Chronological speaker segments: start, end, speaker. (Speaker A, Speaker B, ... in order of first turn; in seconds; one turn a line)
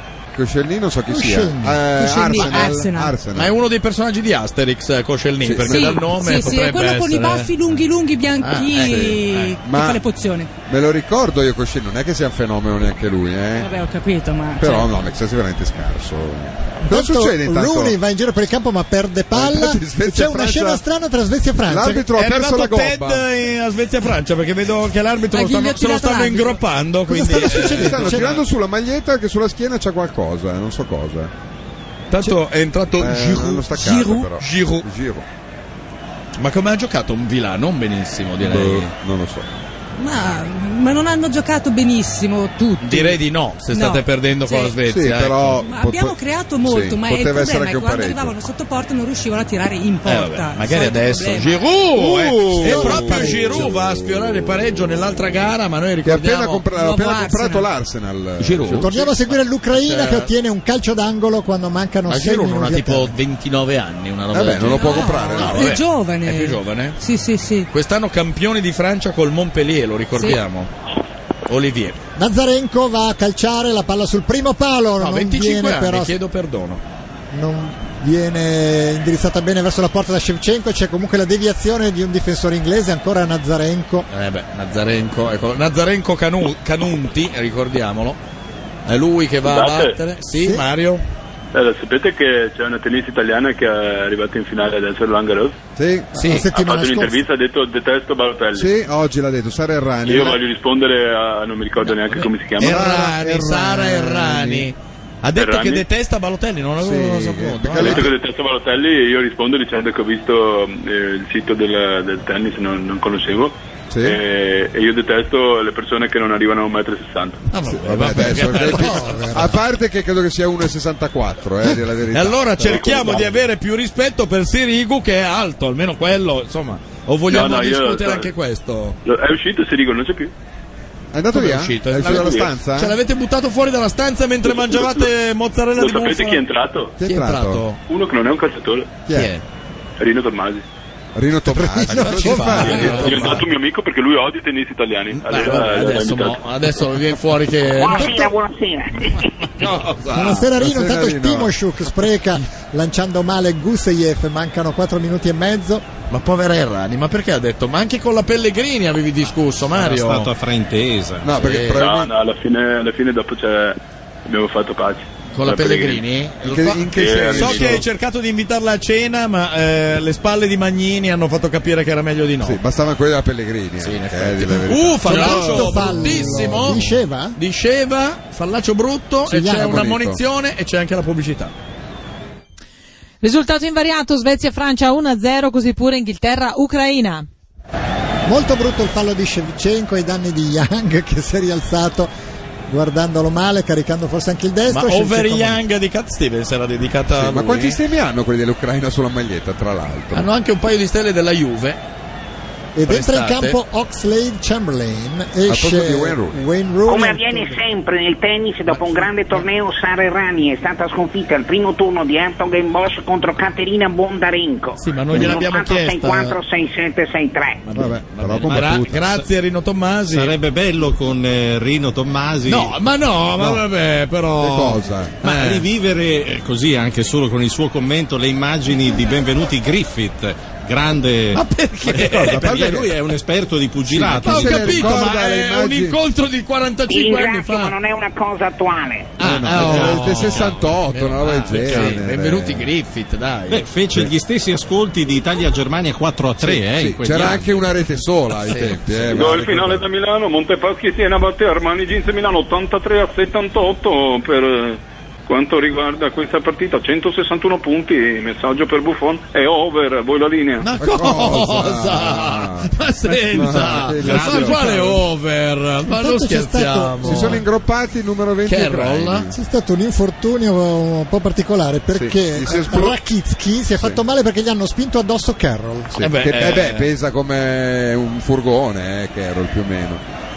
Speaker A: 0.3-3.5
Speaker B: 1.1-1.8
Speaker C: 1.9-3.1
Speaker D: 3.3-7.5
Speaker A: 5.4-6.1
Speaker C: 5.7-10.5
Speaker D: 8.4-9.6
Speaker A: 8.8-10.0
Speaker A: 10.7-13.7
Speaker C: 13.6-14.9
Speaker A: 14.6-17.9
Speaker B: 16.8-22.1
Speaker A: 19.3-20.8
Speaker A: 21.6-23.2
Speaker D: 22.1-28.4
Speaker C: 25.3-26.6
Speaker B: 27.1-28.3
Speaker A: 27.4-31.3
Speaker D: 32.1-34.8
Speaker A: 33.0-35.2
Speaker D: 36.4-38.9
Speaker A: 38.4-39.5
Speaker C: 40.0-43.2
Speaker D: 42.8-45.6
Speaker C: 43.7-44.8
Speaker A: 44.9-48.4
Speaker C: 45.6-51.7
Speaker D: 50.0-56.6
Speaker A: 51.9-54.4
Speaker B: 52.6-53.7
Speaker A: 56.0-59.1
Speaker C: 56.7-57.7
Speaker D: 58.4-60.3
Speaker B: 58.8-63.1
Speaker D: 62.1-67.0
Speaker A: 64.3-65.8
Speaker C: 64.7-67.7
Speaker D: 67.7-70.7
Speaker D: 71.5-72.0
Speaker B: 72.2-76.2
Speaker D: 75.0-76.8
Speaker B: 77.3-84.1
Speaker D: 84.1-88.2
Speaker D: 88.8-91.0
Speaker E: 89.4-90.0
Speaker B: 90.4-90.7
Speaker E: 91.5-95.5
Speaker A: 95.8-96.1
Speaker B: 96.1-97.2
Speaker D: 96.2-96.5
Speaker E: 96.5-98.7
Speaker A: 98.5-100.4
Speaker E: 100.0-102.9
Speaker D: 101.8-108.1
Speaker A: 102.6-104.7
Speaker E: 105.3-105.8
Speaker A: 106.8-108.1
Speaker E: 107.8-117.4
Speaker A: 113.9-114.2
Speaker D: 117.5-119.3
Speaker A: 117.7-123.3
Speaker B: 118.1-119.6
Speaker D: 122.1-129.0
Speaker E: 122.6-123.3
Speaker E: 127.3-128.3
Speaker E: 129.0-130.3
Speaker A: 131.1-133.0
Speaker D: 131.3-136.4
Speaker E: 132.0-132.5
Speaker E: 134.4-135.1
Speaker E: 135.7-136.9
Speaker A: 137.0-137.6
Speaker D: 137.0-137.8
Speaker E: 137.8-138.9
Speaker A: 139.1-139.3
Speaker D: 139.1-139.4
Speaker E: 140.0-140.6
Speaker A: 141.1-143.5
Speaker B: 141.4-143.2
Speaker D: 141.9-143.4
Speaker E: 142.9-146.4
Speaker D: 145.2-148.3
Speaker F: 147.8-149.4
Speaker D: 149.6-150.4
Speaker B: 150.1-155.8
Speaker A: 150.1-151.5
Speaker D: 156.1-160.3
Speaker G: 159.7-161.3
Speaker A: 161.2-162.1
Speaker D: 161.4-161.8
Speaker E: 161.7-166.0
Speaker D: 165.3-172.6
Speaker A: 166.4-167.8
Speaker E: 166.9-167.8
Speaker A: 172.4-176.4
Speaker D: 173.8-181.5
Speaker B: 175.0-177.4
Speaker B: 179.3-179.8
Speaker A: 179.5-180.2
Speaker H: 183.2-187.3
Speaker B: 188.2-192.1
Speaker B: 192.7-195.6
Speaker D: 194.7-197.8
Speaker A: 197.1-200.3
Speaker D: 200.1-201.8
Speaker B: 202.7-207.6
Speaker D: 202.9-203.6
Speaker A: 205.5-206.4
Speaker F: 206.9-217.6
Speaker D: 214.8-216.3
Speaker A: 215.1-215.4
Speaker D: 217.7-220.3
Speaker A: 217.7-219.1
Speaker G: 220.1-222.8
Speaker D: 222.4-225.7
Speaker A: 223.4-223.6
Speaker A: 224.4-225.2
Speaker G: 225.2-235.0
Speaker D: 231.3-232.8
Speaker A: 231.9-232.9
Speaker A: 233.9-236.0
Speaker D: 234.0-237.8
Speaker F: 236.9-239.1
Speaker D: 239.2-243.7
Speaker A: 239.2-242.7
Speaker G: 243.5-247.6
Speaker A: 246.5-249.9
Speaker D: 248.4-249.1
Speaker E: 249.1-260.7
Speaker D: 260.6-267.4
Speaker A: 260.8-262.7
Speaker A: 263.2-265.0
Speaker G: 264.0-264.8
Speaker B: 265.9-267.4
Speaker A: 267.0-269.4
Speaker D: 268.5-269.3
Speaker B: 269.3-276.0
Speaker A: 271.9-273.0
Speaker A: 275.9-280.0
Speaker D: 276.0-276.9